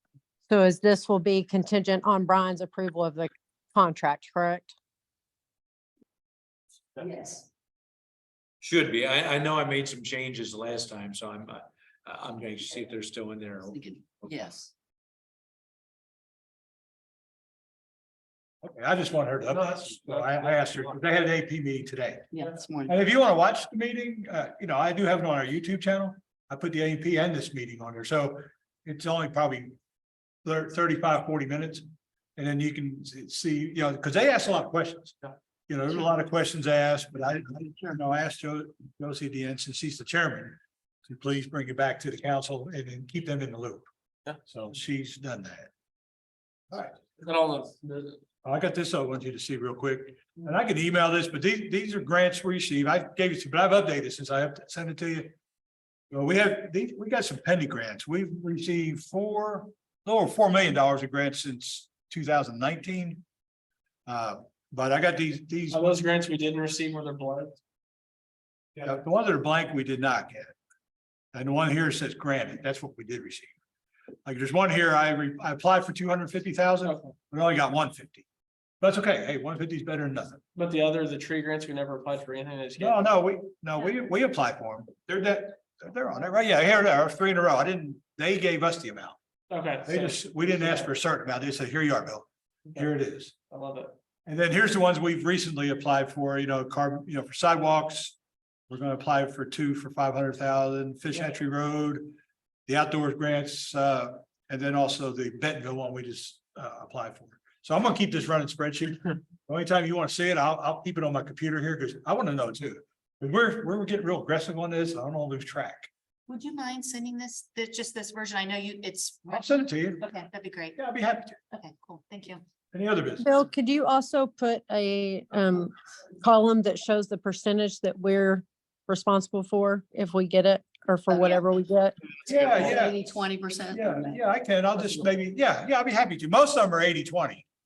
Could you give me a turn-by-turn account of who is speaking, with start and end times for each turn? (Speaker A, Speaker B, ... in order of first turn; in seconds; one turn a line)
Speaker A: 0.5-4.7
Speaker B: 7.0-7.5
Speaker C: 8.6-14.3
Speaker B: 13.7-14.7
Speaker D: 18.6-22.3
Speaker E: 19.5-21.0
Speaker B: 22.3-22.9
Speaker D: 22.9-29.8
Speaker D: 30.4-31.8
Speaker D: 32.4-43.9
Speaker D: 44.5-45.7
Speaker D: 46.7-47.0
Speaker E: 47.2-48.2
Speaker D: 48.4-55.3
Speaker D: 56.1-63.2
Speaker D: 64.1-66.0
Speaker E: 65.7-67.5
Speaker D: 68.8-70.5
Speaker D: 71.3-73.5
Speaker D: 74.2-78.2
Speaker E: 76.8-77.1
Speaker D: 78.8-80.4
Speaker E: 80.5-83.0
Speaker D: 82.8-89.2
Speaker E: 89.5-90.9
Speaker D: 89.8-93.3
Speaker E: 93.5-93.9
Speaker D: 94.2-98.2
Speaker D: 98.7-102.2
Speaker D: 102.7-115.9
Speaker F: 116.3-120.8
Speaker D: 119.3-120.0
Speaker D: 120.8-121.4
Speaker F: 121.5-122.4
Speaker D: 122.7-123.3
Speaker A: 123.2-131.9
Speaker B: 131.1-131.4
Speaker B: 132.2-134.2
Speaker D: 132.2-133.0
Speaker D: 133.7-137.4
Speaker E: 134.8-135.0